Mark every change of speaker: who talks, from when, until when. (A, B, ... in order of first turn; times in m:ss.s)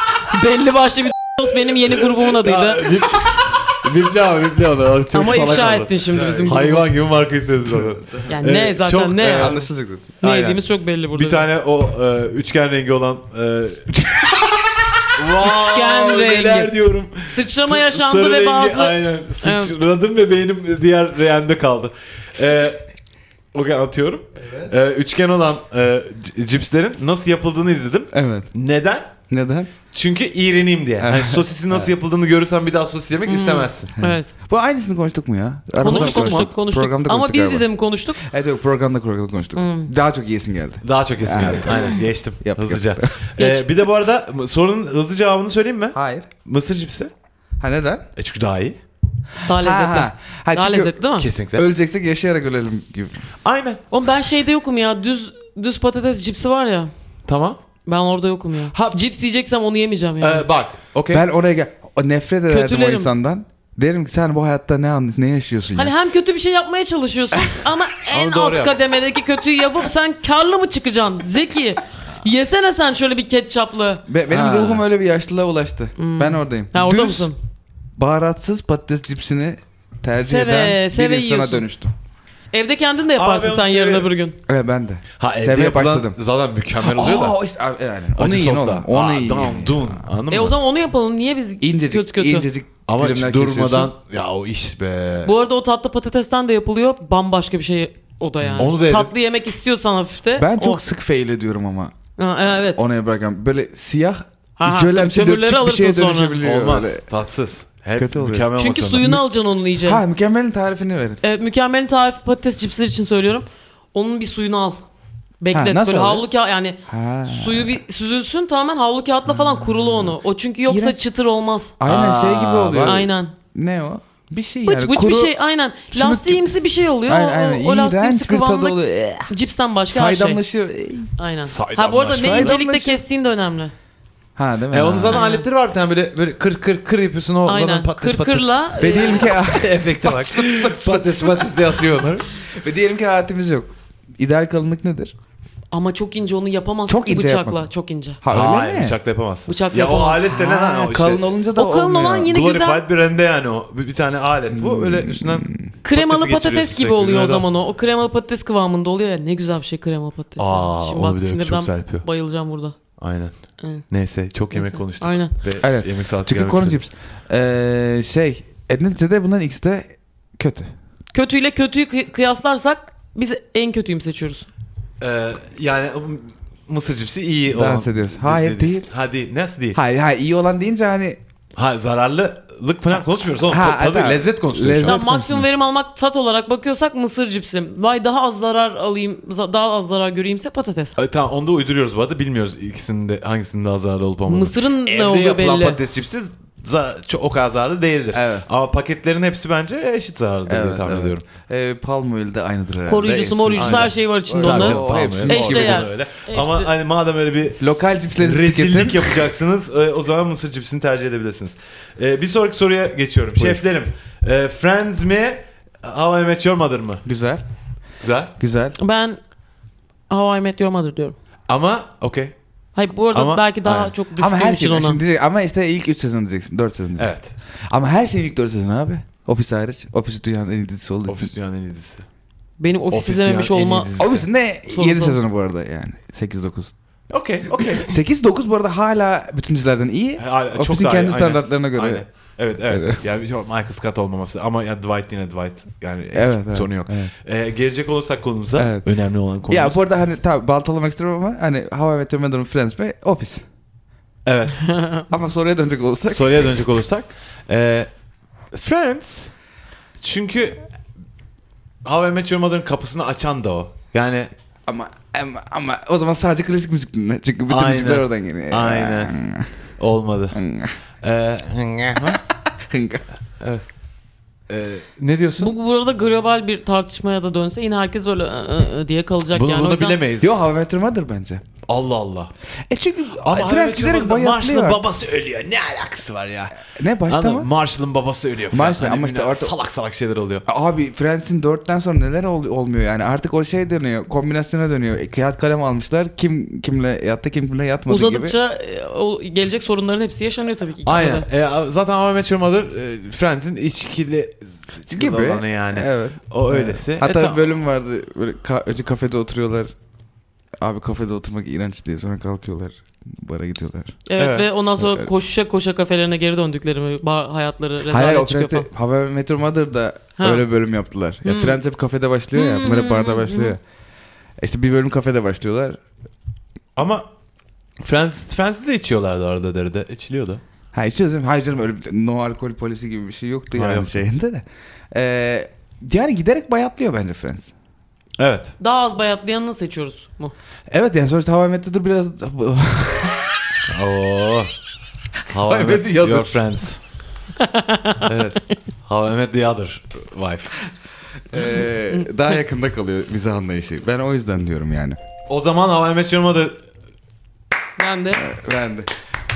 0:00.3-0:03.0 A
0:02.2-0:09.6 B
0:05.1-0:06.9 A
0:06.1-0:06.6 C
0:08.3-0:09.7 A
0:09.2-0:10.1 C
0:10.2-0:11.4 A
0:10.2-0:13.9 B
0:13.9-0:14.9 C
0:15.2-0:22.9 B
0:15.4-0:19.7 A
0:23.5-0:29.1 B
0:28.1-0:28.5 C
0:29.3-0:29.7 C
0:29.9-0:33.9 B
0:31.0-0:31.9 C
0:33.3-0:34.3 A
0:34.0-0:43.2 C
0:35.8-0:38.2 A
0:35.8-0:36.5 B
0:39.5-0:39.9 A
0:40.8-0:47.1 B
0:43.4-0:43.7 A
0:45.9-0:46.3 C
0:47.6-0:48.0 C
0:48.2-0:48.8 B
0:49.4-0:51.3 A
0:49.5-0:50.9 C
0:51.2-0:51.7 B
0:51.5-0:53.2 C
0:53.4-0:53.8 B
0:53.9-0:56.9 A
0:57.2-0:57.6 B
0:57.8-1:00.5 A
1:00.2-1:01.2 B
1:01.1-1:05.9 C
1:02.5-1:03.1 A
1:05.7-1:14.0 A
1:08.1-1:08.8 B
1:14.1-1:17.3 C
1:14.3-1:14.8 B
1:16.0-1:17.4 A
1:18.0-1:21.9 C
1:20.2-1:21.6 A
1:22.5-1:24.4 A
1:23.2-1:24.1 B
1:24.5-1:26.2 C
1:25.2-1:27.4 B
1:26.8-1:30.0 C
1:28.2-1:30.6 B
1:30.3-1:32.5 A
1:31.6-1:33.9 C
1:32.9-1:35.3 B
1:35.2-1:40.8 A
1:38.4-1:38.7 C
1:38.6-1:39.1 B
1:40.4-1:41.9 C
1:42.2-1:42.8 A
1:42.7-1:47.0 C
1:44.6-1:46.4 A
1:46.4-1:49.1 B
1:48.0-1:49.2 C
1:48.6-1:50.0 A
1:49.8-1:51.2 C
1:51.2-1:54.8 A
1:55.4-2:01.7 A
1:55.5-1:56.3 C
1:56.9-1:57.8 C
2:00.7-2:01.0 C
2:01.8-2:05.3 C
2:01.8-2:03.0 B
2:02.8-2:03.3 A
2:04.6-2:10.4 A
2:05.9-2:06.5 C
2:07.0-2:09.3 C
2:09.9-2:11.1 C
2:11.2-2:13.7 A
2:11.4-2:12.6 B
2:12.1-2:13.0 C
2:14.4-2:15.2 C
2:14.7-2:22.2 B
2:15.1-2:15.4 A
2:17.4-2:19.4 A
2:18.8-2:25.1 C
2:25.7-2:28.2 A
2:26.9-2:27.6 C
2:28.2-2:29.0 C
2:28.3-2:31.3 B
2:29.5-2:30.3 A
2:30.3-2:32.3 C
2:31.6-2:32.8 A
2:32.3-2:37.5 B
2:34.5-2:35.7 C
2:35.8-2:42.8 A
2:40.4-2:42.0 B
2:43.0-2:46.8 B
2:44.5-2:45.3 A
2:45.6-2:50.7 C
2:51.1-2:54.5 A
2:55.0-2:59.8 B
2:57.5-2:58.8 C
2:59.7-3:01.2 C
3:01.6-3:05.0 B
3:03.4-3:05.4 C
3:04.8-3:11.0 A
3:11.0-3:21.2 B
3:14.3-3:15.8 A
3:18.1-3:18.4 C
3:20.5-3:25.9 C
3:22.8-3:26.7 A
3:23.6-3:37.0 B
3:27.6-3:29.3 C
3:37.0-3:37.4 C
3:38.0-3:38.3 B
3:38.4-3:38.8 C
3:38.8-3:39.2 A
3:40.1-3:41.2 A
3:41.5-3:42.3 B
3:42.7-3:45.0 A
3:43.1-3:43.9 B
3:44.2-3:47.2 C
3:47.0-3:47.3 B
3:47.7-3:51.3 C
3:51.0-3:52.0 B
3:52.6-3:54.1 A
3:52.9-3:54.3 B
3:54.0-3:56.7 C
3:54.6-3:55.2 A
3:57.1-3:57.9 B
3:57.8-4:02.0 C
4:00.2-4:09.8 B
4:02.6-4:03.0 C
4:06.1-4:07.1 C
4:08.6-4:08.9 C
4:09.5-4:13.4 C
4:14.2-4:14.8 B
4:14.7-4:15.0 A
4:15.1-4:16.6 C
4:16.1-4:17.9 B
4:18.5-4:19.3 B
4:20.0-4:20.6 B
4:21.8-4:24.3 B
4:24.7-4:29.5 C
4:27.5-4:29.1 B
4:29.8-4:30.4 B
4:30.3-4:30.7 C
4:31.0-4:32.2 B
4:32.1-4:33.0 C
4:34.5-4:35.5 B
4:35.4-4:40.0 A
4:39.3-4:40.4 B
4:40.2-4:41.4 C
4:41.7-4:42.3 B
4:42.7-4:44.8 C
4:43.2-4:50.4 B
4:46.6-4:47.5 C
4:48.5-4:49.5 C
4:50.4-4:58.4 C
4:57.9-5:01.3 A
5:00.8-5:07.4 B
5:04.9-5:09.7 C
5:10.6-5:14.0 C
5:14.1-5:18.7 A
5:14.2-5:14.5 B
5:14.8-5:15.1 C
5:17.9-5:23.6 C
5:20.2-5:20.4 A
5:21.2-5:21.6 A
5:22.3-5:23.5 A
5:24.4-5:25.8 C
5:26.8-5:27.0 B
5:27.8-5:30.4 B
5:30.7-5:37.5 C
5:33.5-5:33.9 B
5:38.2-5:38.5 B
5:38.6-5:40.3 A
5:40.7-5:43.4 C
5:43.7-5:44.5 B
5:45.3-5:46.8 B
5:45.3-5:46.4 C
5:47.4-5:48.1 A
5:48.0-5:50.6 B
5:51.3-5:55.0 C
5:55.3-5:56.6 B
5:57.8-5:58.3 A
5:58.1-5:58.9 C